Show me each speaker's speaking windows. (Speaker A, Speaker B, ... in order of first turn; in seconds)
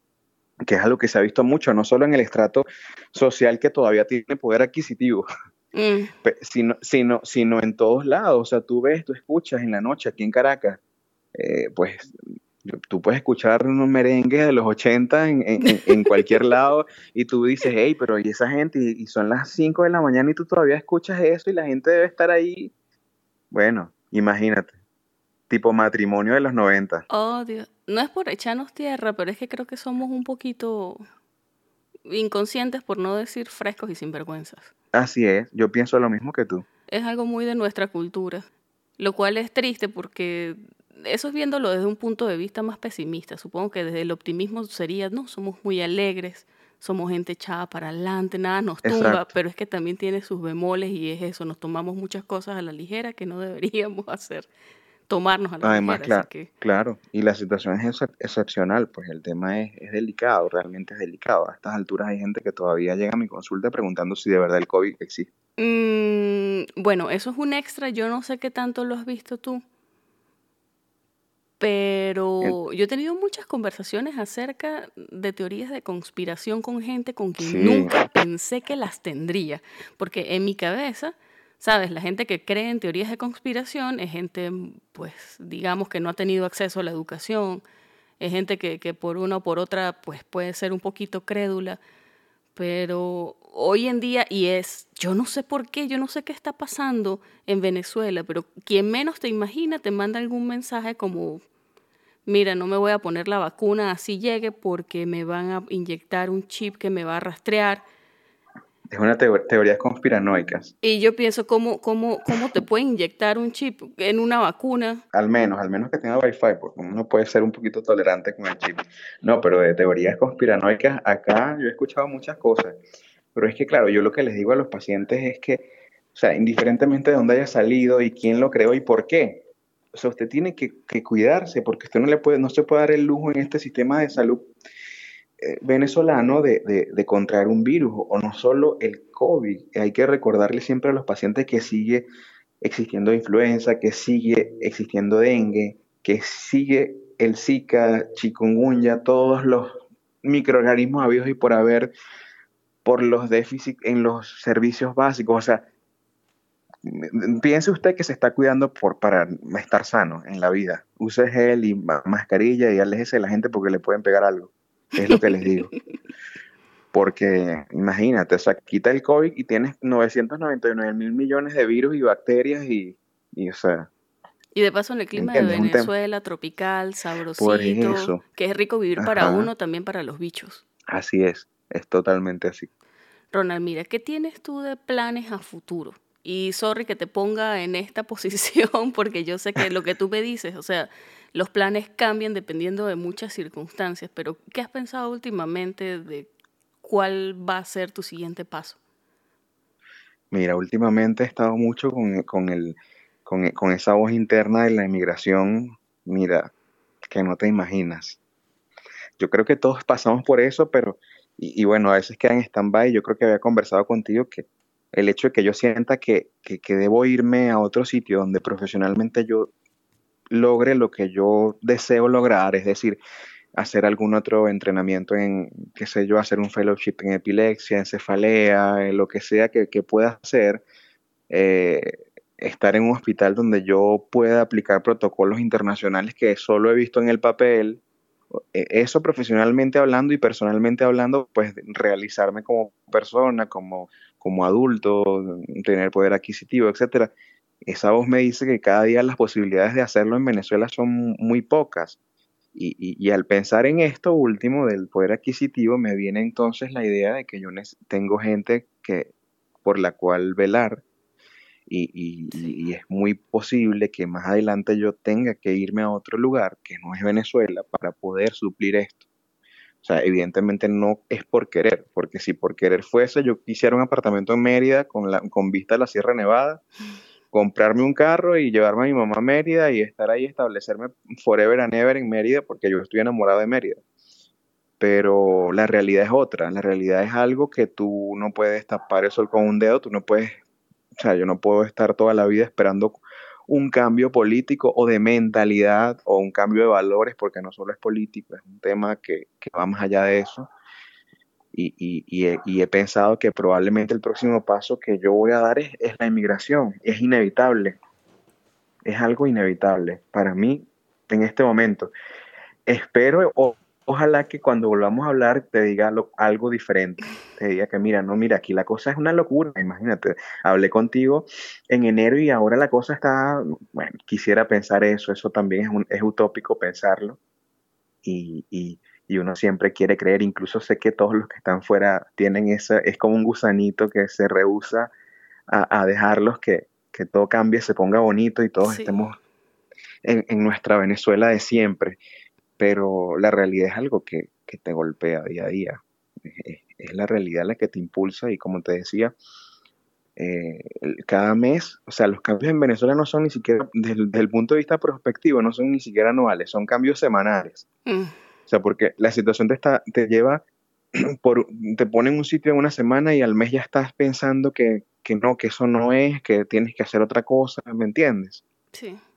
Speaker A: 0.7-5.2, 6.2-10.8, 11.3-22.7, 23.5-24.8, 25.5-27.0, 34.9-36.6, 48.8-49.3, 55.6-65.3, 77.4-78.0, 108.9-110.7, 115.1-122.8, 123.3-134.5, 135.4-142.1, 142.6-151.9, 152.8-155.6, 156.8-165.7, 166.9-173.9, 175.1-175.9, 177.4-178.2, 179.0-179.5, 180.9-182.7, 200.3-206.5, 207.1-208.2, 209.2-219.5, 220.3-223.0, 223.5-230.6, 231.3-237.8, 238.3-247.1, 247.6-252.0, 252.5-259.1, 259.6-260.8, 261.7-269.0, 269.8-276.6, 277.3-283.8, 284.8-290.4, 291.0-300.5, 301.5-307.8, 308.9-311.9, 312.7-327.2, 328.0-334.9, 335.5-339.2, 340.0-342.0, 342.6-349.1, 350.2-357.6, 358.5-360.4, 361.0-368.4
Speaker B: 5.7-6.1, 27.1-31.0, 32.0-34.7, 36.9-38.5, 39.0-54.5, 55.1-56.5, 65.6-69.6, 71.6-87.6, 88.2-91.8, 92.5-101.4, 102.2-107.8, 110.8-115.0, 165.0-165.5, 174.6-180.6, 183.3-196.3, 196.8-198.8, 262.3-262.6, 338.6-339.0, 357.9-358.1, 368.7-369.0